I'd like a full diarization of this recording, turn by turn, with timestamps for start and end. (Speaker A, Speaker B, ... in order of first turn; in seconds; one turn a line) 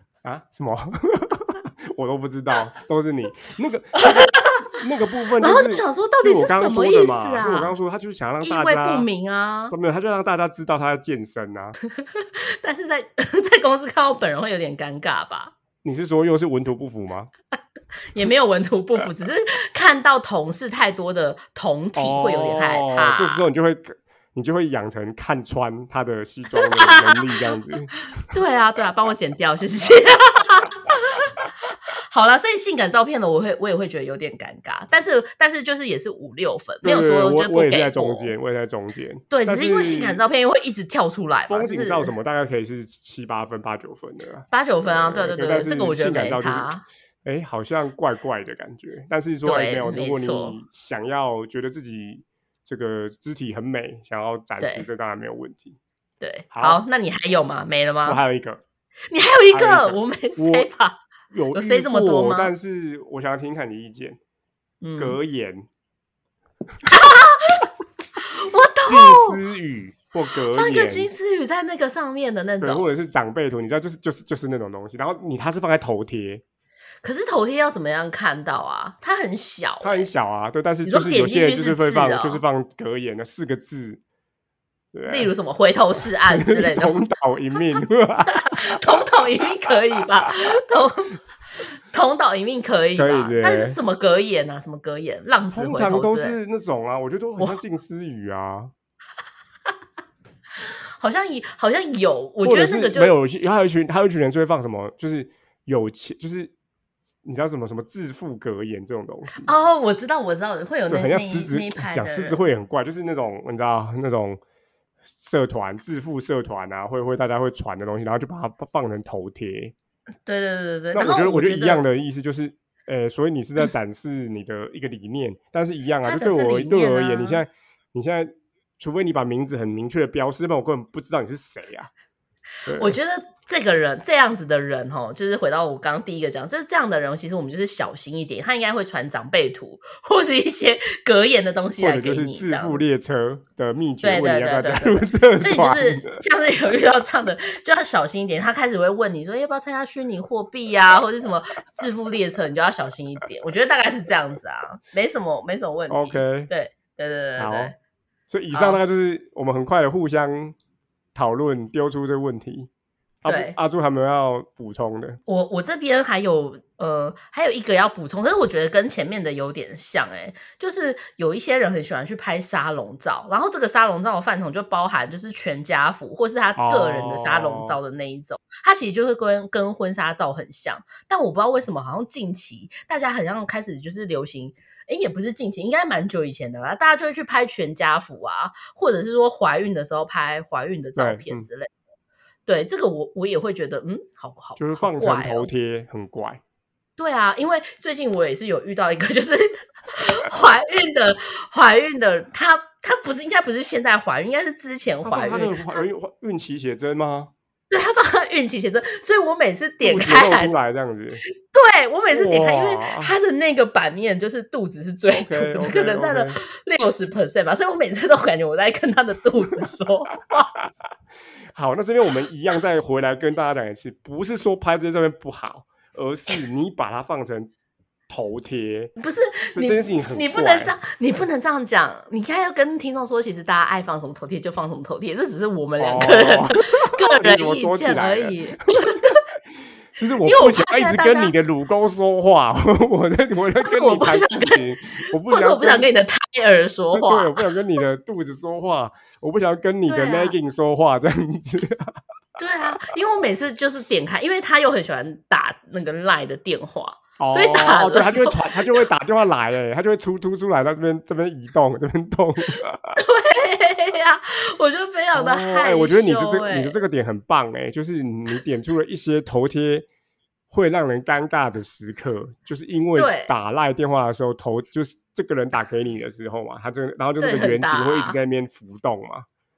Speaker A: 0.2-9.1
Speaker B: 4.0-4.8
Speaker B: 5.4-7.7
Speaker B: 8.4-9.7
Speaker A: 9.7-11.8
Speaker B: 11.9-15.5
Speaker A: 15.8-17.3
Speaker B: 18.1-23.4
Speaker A: 21.9-27.9
Speaker B: 26.5-27.2
Speaker B: 28.3-31.5
Speaker B: 32.1-38.3
Speaker A: 36.8-40.2
Speaker B: 39.3-42.1
Speaker A: 41.5-46.7
Speaker B: 44.5-46.8
Speaker A: 47.2-55.8
Speaker B: 49.4-50.6
Speaker B: 54.6-54.9
Speaker B: 56.2-58.2
Speaker A: 56.5-56.8
Speaker A: 58.0-58.6
Speaker B: 59.1-61.0
Speaker A: 59.5-60.7
Speaker A: 61.3-64.2
Speaker B: 61.5-62.5
Speaker B: 64.8-65.2
Speaker A: 65.0-65.7
Speaker B: 66.8-69.4
Speaker A: 68.8-71.1
Speaker B: 70.5-72.9
Speaker A: 72.6-76.4
Speaker B: 77.0-80.1
Speaker A: 79.8-84.0
Speaker B: 80.8-82.4
Speaker A: 84.9-85.3
Speaker B: 85.1-87.0
Speaker A: 86.2-89.0
Speaker B: 88.3-91.2
Speaker B: 91.9-96.3
Speaker A: 93.0-93.8
Speaker A: 95.5-98.7
Speaker B: 101.0-103.1
Speaker A: 102.4-106.5
Speaker A: 107.2-109.5
Speaker B: 109.4-112.4
Speaker A: 110.9-114.4
Speaker A: 115.0-119.7
Speaker B: 120.2-121.8
Speaker A: 120.9-131.9
Speaker B: 126.0-127.4
Speaker A: 132.7-133.0
Speaker B: 132.7-142.8
Speaker A: 141.8-146.2
Speaker B: 144.0-157.7
Speaker A: 155.9-156.5
Speaker A: 157.4-157.7
Speaker A: 158.3-160.6
Speaker B: 158.5-158.8
Speaker A: 161.1-162.7
Speaker A: 163.2-165.2
Speaker B: 163.2-163.6
Speaker B: 165.3-191.7
Speaker A: 176.6-177.8
Speaker A: 191.0-191.4
Speaker B: 192.4-195.5
Speaker A: 194.6-196.4
Speaker B: 197.0-205.8
Speaker A: 205.0-207.3
Speaker B: 207.7-210.5
Speaker A: 209.8-211.2
Speaker B: 211.3-220.5
Speaker A: 212.1-213.1
Speaker A: 215.1-216.4
Speaker A: 221.5-227.5
Speaker A: 228.1-228.9
Speaker B: 229.0-239.2
Speaker A: 229.5-230.7
Speaker A: 235.8-239.0
Speaker A: 240.0-245.9
Speaker B: 240.2-241.3
Speaker B: 243.6-247.4
Speaker A: 246.9-251.9
Speaker B: 249.8-250.3
Speaker B: 252.4-258.8
Speaker A: 257.2-263.0
Speaker B: 262.9-266.8
Speaker A: 265.1-269.9
Speaker A: 270.5-279.2
Speaker B: 272.9-273.3
Speaker B: 277.2-278.2